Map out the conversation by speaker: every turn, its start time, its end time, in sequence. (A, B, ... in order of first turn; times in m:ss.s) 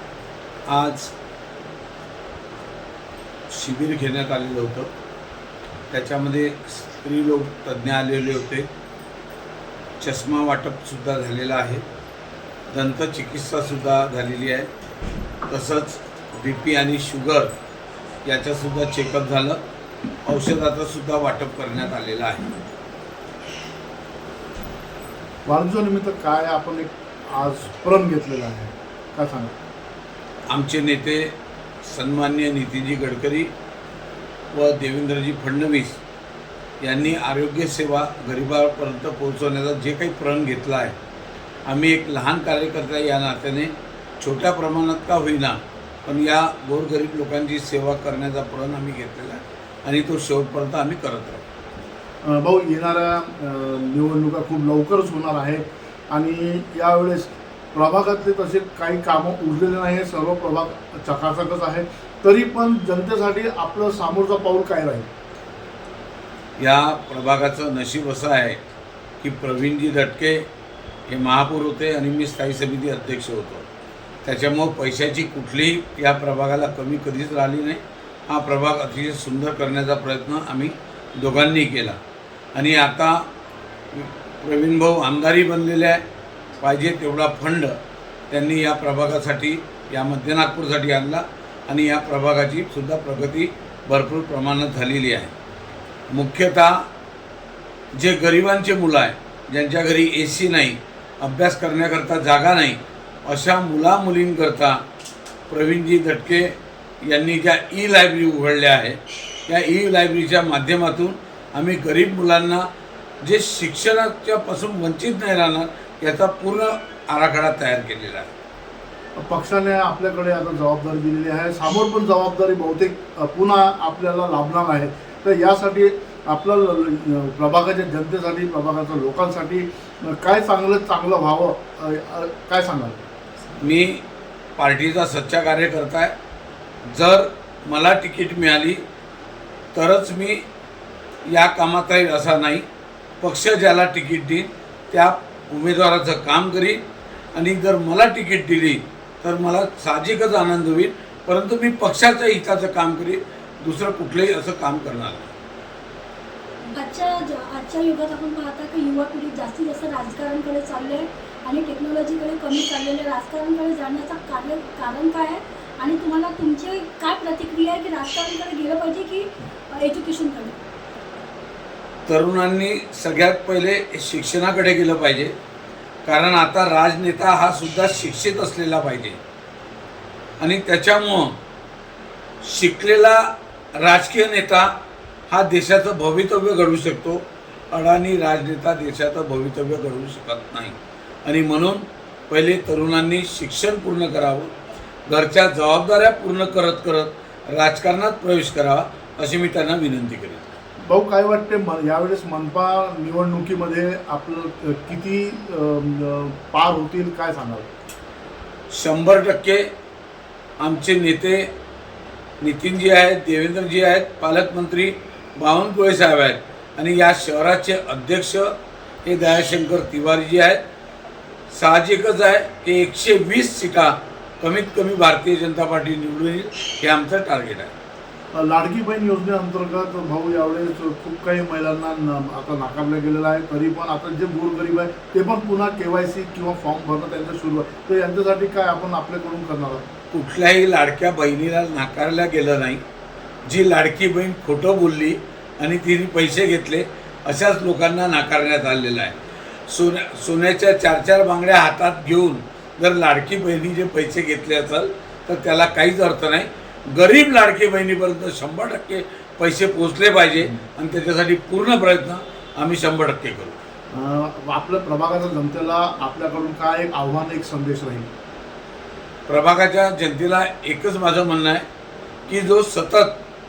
0:00.7-0:01.1 A
0:03.5-0:04.9 A
0:05.9-0:08.7 A
0:10.0-0:11.8 A
0:12.7-0:14.7 A
0:15.5-0:17.5 A
0:18.2-0:19.6 A
0:20.2-0:22.5 A
0:25.5-0:29.5 B
0:30.5-0:33.5 A
0:34.5-0:36.0 A
0:36.8-0:41.0 A
0:41.7-0:51.4 A
0:52.2-1:05.1 B
1:06.6-1:08.6 A
1:09.2-1:10.5 A
1:11.1-1:13.7 A
1:14.2-1:22.0 A
1:22.5-1:23.3 A
1:23.9-1:26.0 A
1:26.6-1:27.8 A
1:28.3-1:35.3 A
1:36.1-1:36.9 A
1:38.0-1:44.8 A
1:45.5-1:52.7 A
1:53.2-1:58.3 A
1:59.2-2:13.1 B
2:13.6-2:14.0 A
2:14.6-2:16.1 A
2:16.8-2:18.8 A
2:19.7-2:20.4 A
2:21.2-2:22.6 A
2:23.2-2:26.8 A
2:27.3-2:35.3 A
2:36.7-2:50.6 C
2:52.1-2:55.3 A
2:56.0-2:59.2 A
3:00.4-3:01.4 A
3:02.4-3:04.8 A
3:05.3-3:14.5 A
3:15.1-3:20.4 A
3:20.9-3:27.7 B
3:28.7-3:29.7 A
3:30.6-3:31.5 A
3:32.4-3:38.5 A
3:39.0-3:40.6 A
3:41.5-3:47.7 A
3:48.3-3:59.9 B
4:00.1-4:02.8 A
4:03.4-4:09.2 A
4:09.7-4:23.6 A
4:23.9-4:28.1 B
4:29.3-4:31.7 A
4:32.3-4:33.2 A